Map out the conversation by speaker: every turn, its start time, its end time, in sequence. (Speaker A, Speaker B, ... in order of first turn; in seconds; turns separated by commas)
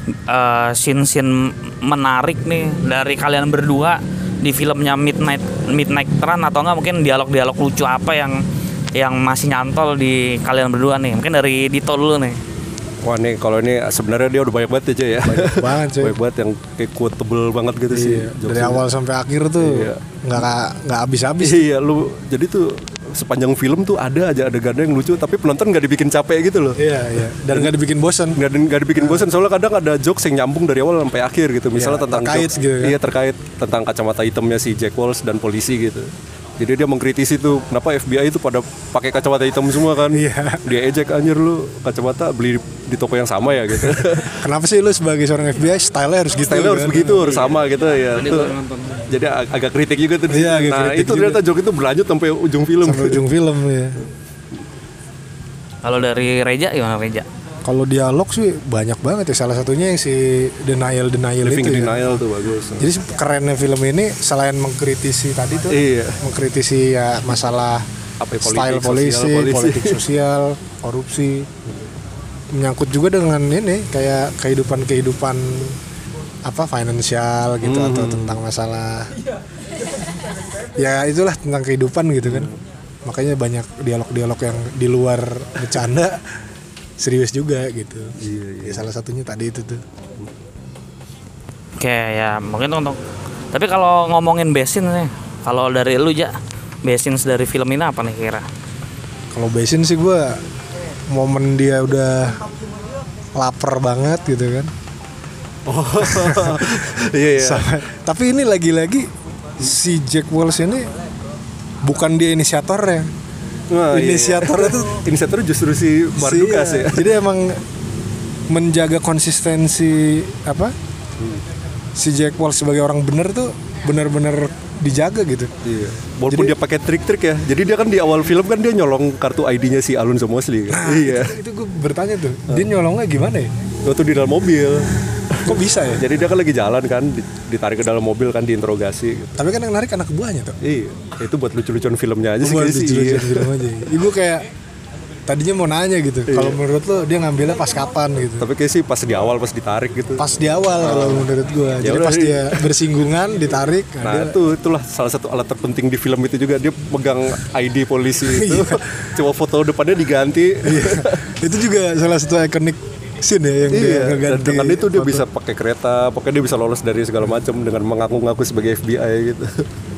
Speaker A: 0.3-8.4, Speaker A: 8.9-12.4, Speaker B: 13.0-18.8, Speaker C: 15.2-16.2, Speaker C: 17.9-21.7, Speaker B: 19.6-20.1, Speaker B: 21.4-26.8, Speaker C: 26.8-28.4, Speaker B: 27.5-27.7, Speaker B: 28.4-36.1, Speaker C: 29.0-29.2, Speaker C: 31.8-33.0, Speaker B: 36.6-44.5, Speaker C: 40.1-40.7, Speaker C: 43.8-47.6, Speaker B: 46.4-53.2, Speaker A: 48.2-49.1, Speaker C: 50.3-51.4, Speaker C: 52.8-54.0, Speaker A: 55.8-57.3, Speaker C: 57.6-62.1, Speaker B: 61.4-62.9, Speaker C: 62.8-67.8, Speaker B: 65.7-66.2, Speaker B: 68.2-70.0, Speaker C: 68.4-71.5, Speaker C: 72.5-75.8, Speaker C: 76.5-79.1, Speaker B: 77.6-78.4, Speaker C: 80.8-86.4, Speaker B: 82.3-82.5, Speaker C: 87.0-89.8, Speaker B: 88.2-88.9, Speaker A: 91.8-93.0, Speaker A: 93.5-98.5, Speaker C: 99.3-100.4, Speaker C: 101.1-102.4, Speaker C: 103.4-104.7, Speaker B: 105.7-107.7, Speaker C: 106.0-110.9, Speaker C: 111.8-113.1, Speaker B: 113.7-117.1, Speaker C: 113.9-115.0, Speaker C: 116.2-117.6, Speaker C: 118.5-120.7, Speaker C: 122.0-125.5, Speaker B: 125.6-131.4, Speaker C: 130.7-133.5, Speaker B: 133.8-139.4, Speaker C: 135.5-136.1, Speaker C: 139.4-140.6, Speaker B: 140.6-143.5, Speaker C: 142.4-144.5, Speaker C: 145.3-148.5, Speaker B: 146.3-146.6, Speaker B: 148.4-150.2, Speaker C: 150.2-154.4, Speaker B: 150.8-151.3, Speaker B: 151.8-152.7, Speaker B: 154.0-161.4, Speaker C: 158.3-158.9, Speaker C: 160.6-165.2, Speaker B: 163.7-169.7